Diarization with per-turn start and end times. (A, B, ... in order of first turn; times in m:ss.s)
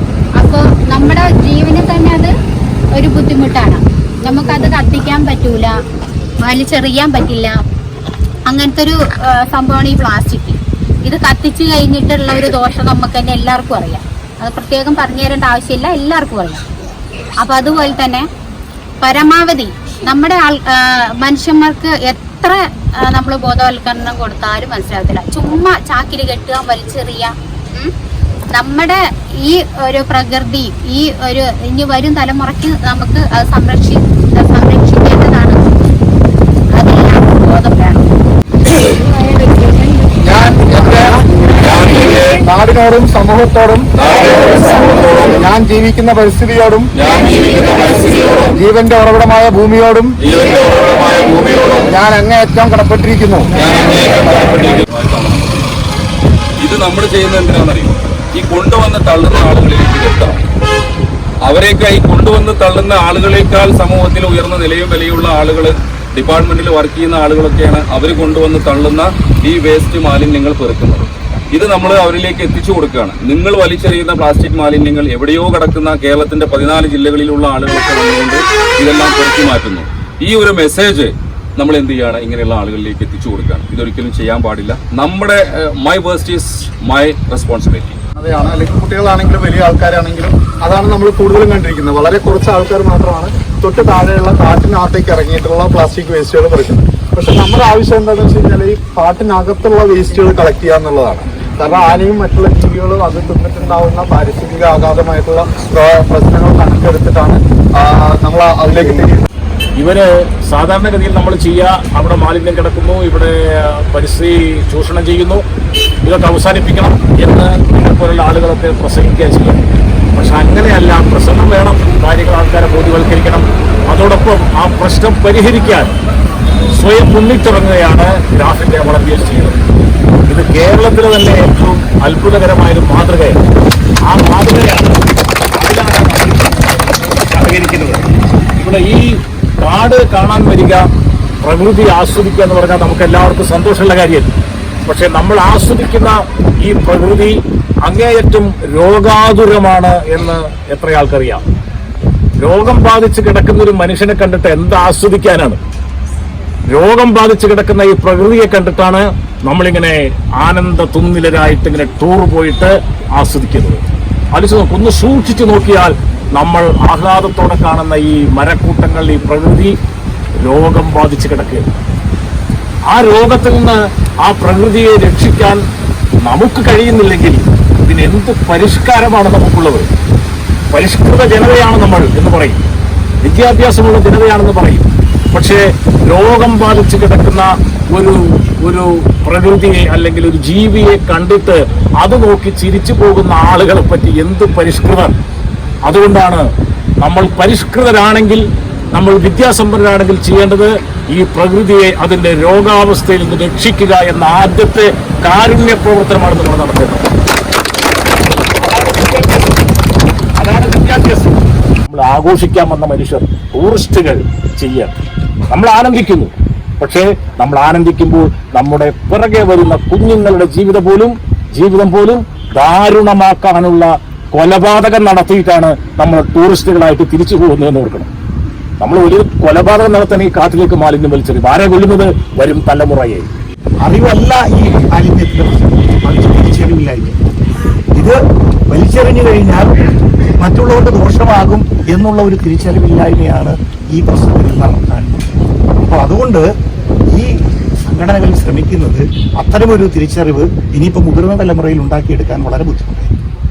0:00.4-0:02.3 A
0:03.0-0:05.7 A
0:06.4-0:07.5 A
0:08.5-0:16.6 A
0:17.4-0:18.2 A
0:19.0-0:27.9 A
0:28.6-0:35.6 A
0:36.7-0:38.1 A
0:39.1-0:40.1 A
0:40.3-0:41.3 B
0:41.8-0:46.9 B
0:44.0-0:44.3 C
0:47.0-0:48.5 C
0:48.5-0:50.2 B
0:50.2-0:51.9 C
0:51.9-0:53.5 B
0:53.6-0:55.7 C
0:56.6-1:00.4 C
1:01.4-1:28.0 C
1:28.2-1:49.2 B
1:49.8-1:55.4 D
1:56.0-1:59.6 D
2:00.2-2:06.0 D
2:06.7-2:09.6 D
2:10.3-2:13.4 D
2:14.1-2:15.0 D
2:15.5-2:16.6 D
2:17.3-2:18.0 D
2:18.6-2:19.0 D
2:19.6-2:20.8 D
2:21.4-2:24.3 D
2:24.9-2:31.4 D
2:32.4-2:35.6 D
2:36.7-2:43.8 D
2:44.3-2:49.8 D
2:50.4-2:51.6 D
2:52.9-2:55.6 D
2:56.2-2:59.9 D
3:00.7-3:02.6 D
3:03.2-3:15.2 D
3:15.9-3:16.4 D
3:17.0-3:27.1 D
3:28.6-3:29.6 D
3:30.4-3:34.9 D
3:35.5-3:48.1 D
3:48.8-3:53.3 D
3:53.8-3:57.2 E
3:58.7-3:59.7 E
4:00.4-4:05.3 E
4:05.8-4:06.4 E
4:07.9-4:13.1 E